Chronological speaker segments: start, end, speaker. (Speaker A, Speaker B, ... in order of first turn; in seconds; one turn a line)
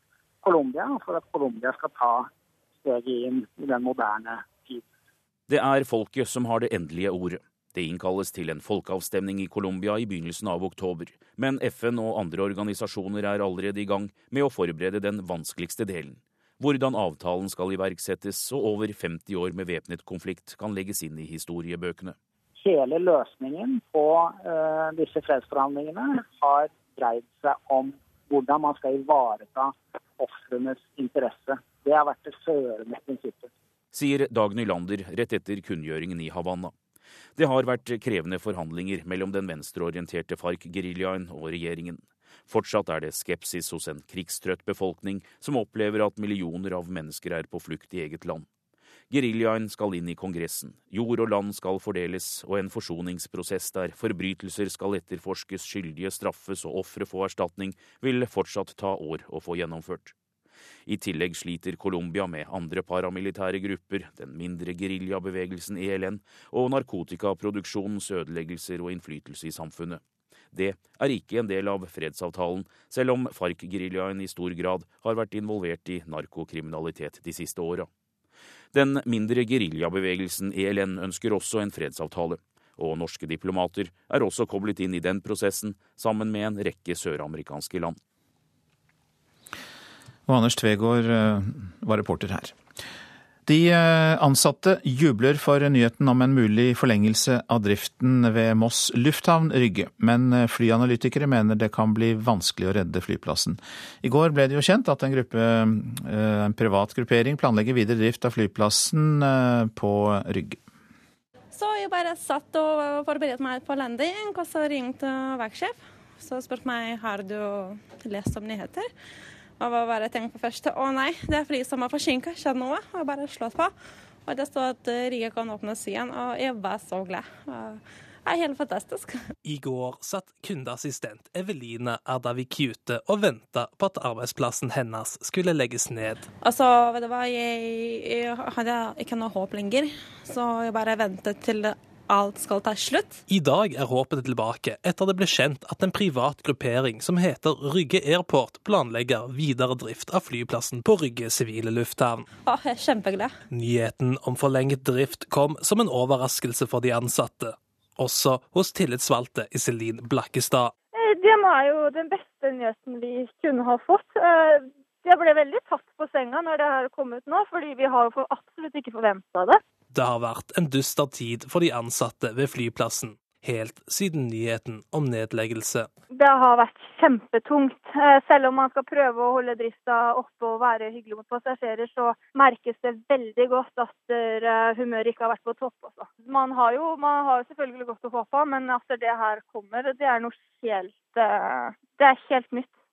Speaker A: 0.4-2.3
Speaker A: 2.8-4.8
Speaker B: 5.5-22.1
Speaker A: 22.6-33.5
Speaker B: 33.9-36.7
Speaker B: 37.4-48.5
Speaker B: 49.1-60.1
Speaker B: 60.9-70.0
Speaker B: 70.5-77.9
Speaker B: 78.7-88.0
Speaker C: 90.3-92.5
Speaker C: 93.5-110.6
Speaker D: 111.5-118.9
Speaker D: 119.6-123.7
Speaker D: 124.2-129.2
Speaker E: 129.4-136.3
Speaker D: 136.4-143.2
Speaker E: 143.3-152.2
Speaker D: 152.4-153.3
Speaker E: 153.5-160.7
Speaker F: 160.9-169.6
Speaker E: 169.9-175.9
Speaker F: 176.1-192.7